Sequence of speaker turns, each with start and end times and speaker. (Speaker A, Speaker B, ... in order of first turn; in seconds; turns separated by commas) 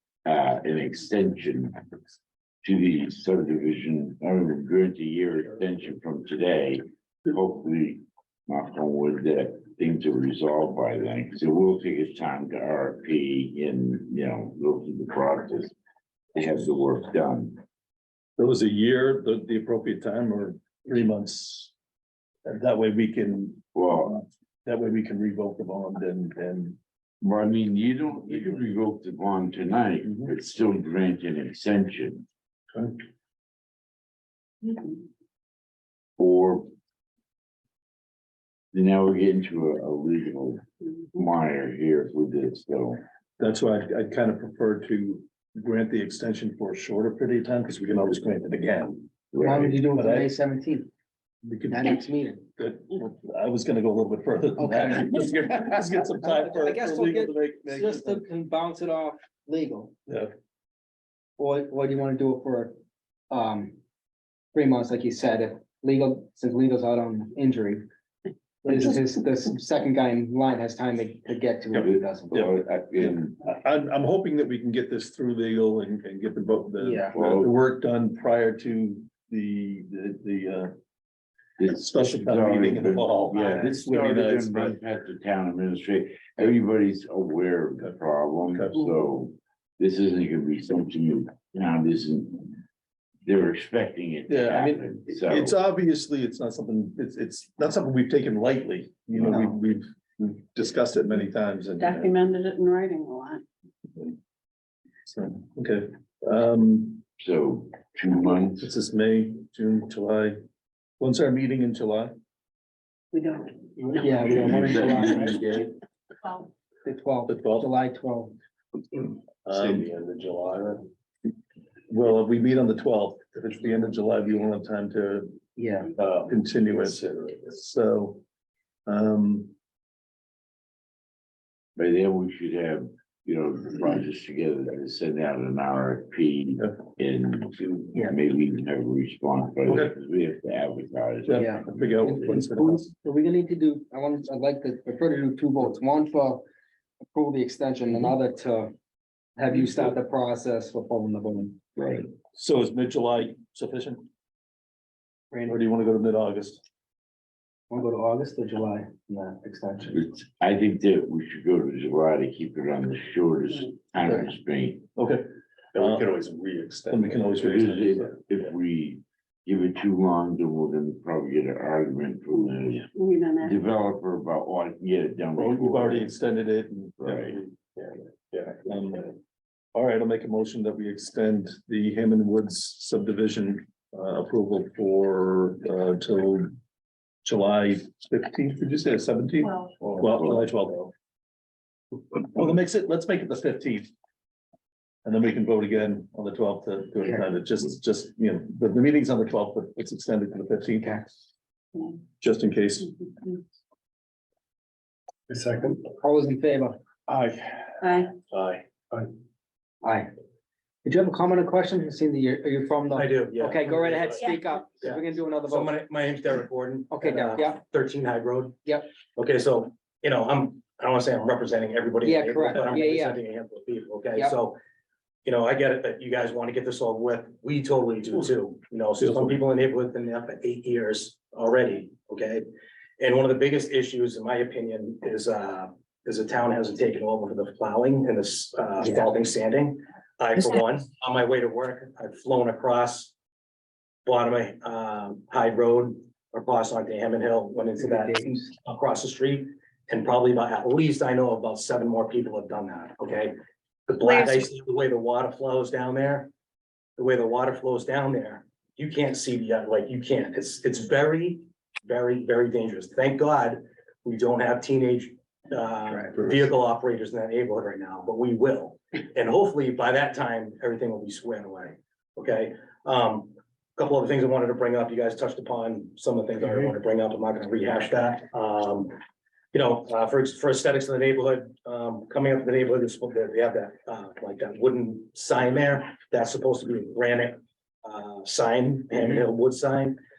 Speaker A: 0.2-1.8, Speaker A: 2.6-15.7, Speaker A: 16.4-17.6, Speaker B: 18.4-21.7, Speaker B: 22.4-23.6, Speaker A: 23.7-24.2, Speaker B: 24.6-26.8, Speaker A: 27.2-32.3, Speaker B: 30.1-30.3, Speaker C: 34.7-34.9, Speaker A: 36.2-36.7, Speaker A: 38.7-43.0, Speaker B: 43.4-49.1, Speaker A: 49.3-49.9, Speaker D: 49.4-50.9, Speaker B: 49.9-50.3, Speaker B: 51.4-58.2, Speaker D: 51.7-52.5, Speaker D: 54.6-59.9, Speaker B: 60.1-60.3, Speaker D: 61.4-62.8, Speaker D: 63.3-63.8, Speaker D: 64.5-67.8, Speaker B: 68.7-69.0, Speaker D: 68.7-72.5, Speaker A: 71.8-73.4, Speaker B: 73.0-80.7, Speaker D: 76.8-77.1, Speaker A: 77.1-77.5, Speaker A: 81.6-92.6, Speaker B: 81.7-84.8, Speaker B: 88.5-88.8, Speaker A: 93.3-95.5, Speaker B: 94.3-102.2, Speaker A: 99.2-99.5, Speaker C: 101.8-103.4, Speaker B: 105.1-107.0, Speaker A: 107.2-108.7, Speaker B: 108.6-110.4, Speaker B: 111.0-112.1, Speaker C: 113.1-114.0, Speaker D: 113.9-115.5, Speaker A: 114.3-115.7, Speaker D: 116.8-118.4, Speaker B: 117.3-117.7, Speaker B: 119.0-119.9, Speaker E: 119.5-120.9, Speaker B: 121.9-125.4, Speaker D: 125.6-125.9, Speaker E: 126.0-126.3, Speaker B: 126.0-128.2, Speaker B: 128.9-129.5, Speaker A: 131.8-142.4, Speaker B: 139.7-139.9, Speaker B: 141.3-142.9, Speaker D: 141.3-146.4, Speaker D: 147.1-148.7, Speaker D: 149.4-151.6, Speaker A: 151.8-152.1, Speaker B: 152.3-154.1, Speaker D: 155.3-155.6, Speaker B: 155.4-156.6, Speaker D: 157.7-160.0, Speaker A: 159.9-164.9, Speaker B: 165.0-166.1, Speaker E: 165.7-167.3, Speaker B: 166.9-168.0, Speaker A: 167.4-172.9, Speaker C: 172.9-173.6, Speaker A: 173.4-176.1, Speaker B: 175.4-177.2, Speaker A: 177.0-177.4, Speaker E: 177.2-178.6, Speaker B: 178.6-179.1, Speaker B: 179.8-186.5, Speaker B: 187.2-190.9, Speaker E: 189.8-190.4, Speaker B: 192.2-193.9, Speaker B: 195.1-200.9, Speaker D: 197.0-197.3, Speaker D: 200.8-201.1, Speaker B: 202.2-202.9, Speaker E: 205.3-205.9, Speaker D: 205.9-206.8, Speaker E: 207.1-209.1, Speaker C: 207.8-208.1, Speaker D: 209.8-210.1, Speaker D: 210.8-215.7, Speaker F: 212.9-213.9, Speaker C: 214.1-214.4, Speaker F: 214.8-224.6, Speaker D: 216.9-217.6, Speaker D: 222.0-223.2, Speaker F: 225.2-232.4, Speaker B: 229.0-229.4, Speaker F: 233.0-243.1, Speaker D: 238.8-239.1, Speaker F: 244.1-253.3, Speaker D: 247.8-248.5, Speaker F: 253.9-256.3, Speaker C: 254.0-254.5, Speaker F: 257.0-278.9, Speaker F: 279.5-290.0